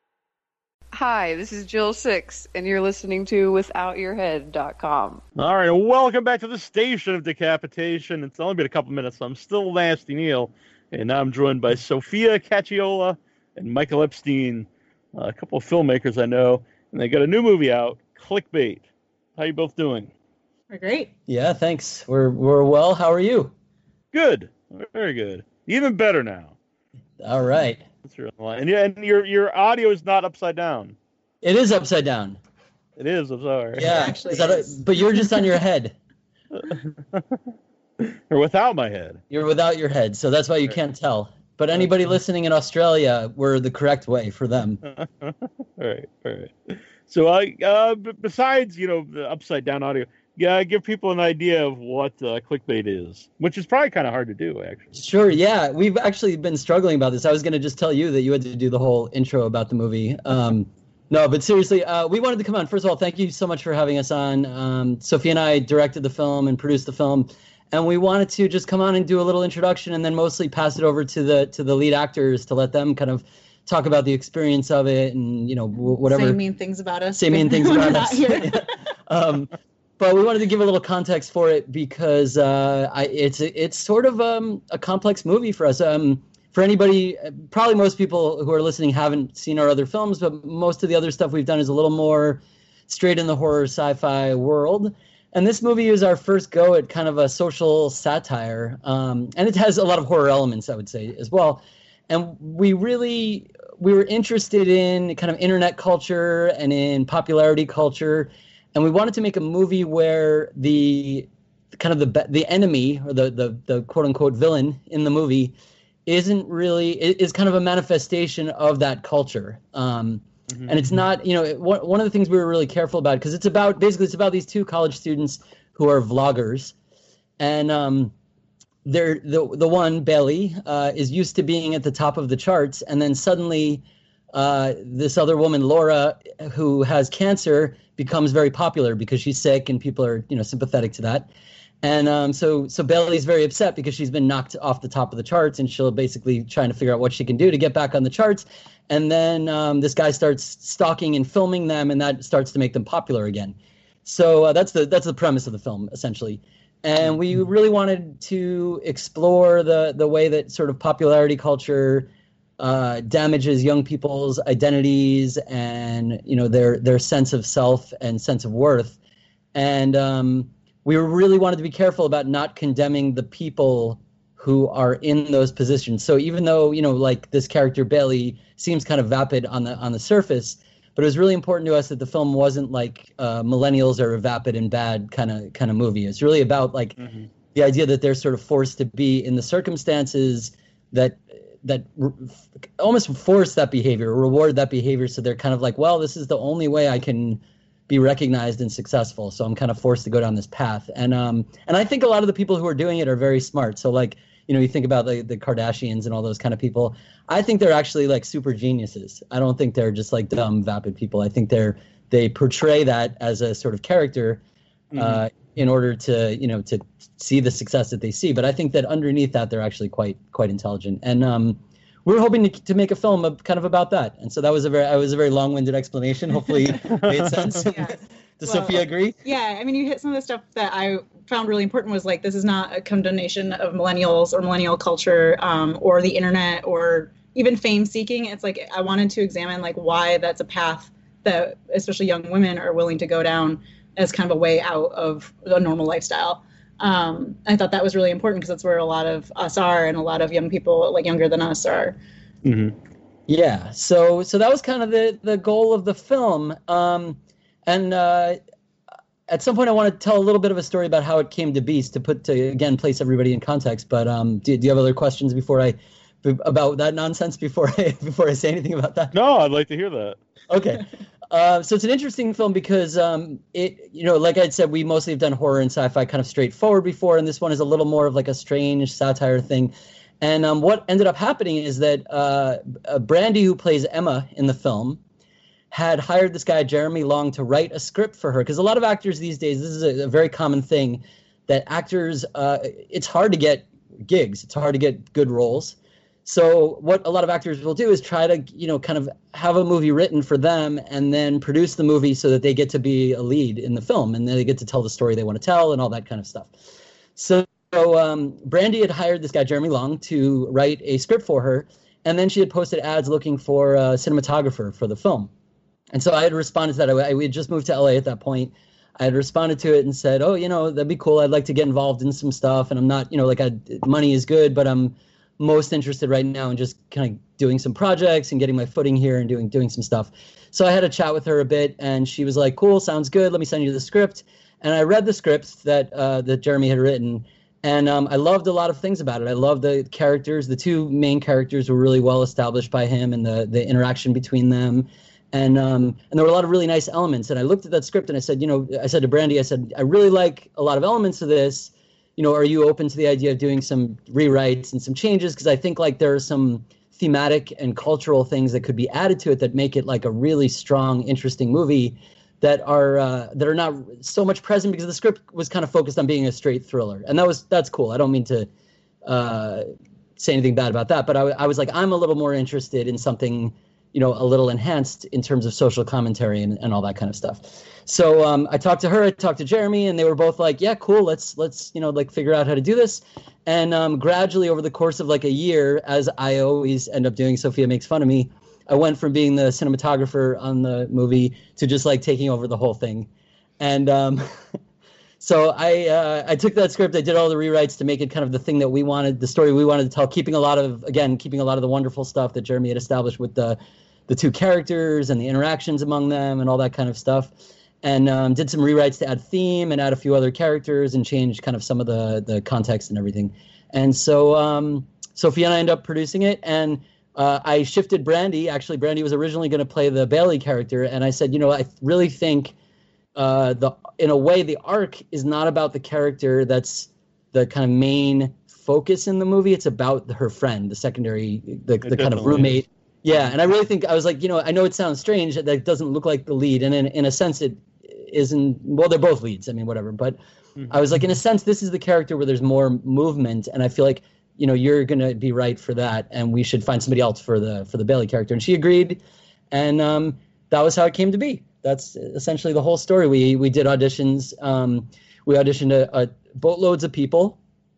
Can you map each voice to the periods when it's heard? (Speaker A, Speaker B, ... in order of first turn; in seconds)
Speaker A: 0.9-5.2
Speaker B: 5.3-18.9, 19.4-20.1, 24.1-26.5, 28.0-30.9, 33.0-34.0, 36.5-37.4, 38.0-39.2, 44.8-54.9, 120.5-121.0, 187.0-187.3, 214.9-215.2, 226.9-227.5, 252.4-252.7, 269.1-270.2, 431.8-432.6, 440.6-440.9
Speaker C: 20.7-21.1, 33.8-34.8, 76.0-78.8, 227.7-252.0
Speaker D: 21.3-23.5, 27.2-27.8, 31.4-32.4, 33.8-35.9, 39.3-44.8, 54.9-76.4, 77.1-115.5, 116.0-126.7, 127.4-128.1, 128.8-141.3, 141.8-169.0, 169.5-187.0, 187.5-214.4, 214.9-229.2, 253.3-258.4, 259.3-269.1, 270.5-285.0, 285.7-306.5, 307.1-315.3, 315.9-368.5, 369.0-369.6, 370.2-393.1, 393.6-394.2, 395.2-422.5, 423.1-440.2, 440.7-449.0, 449.5-457.4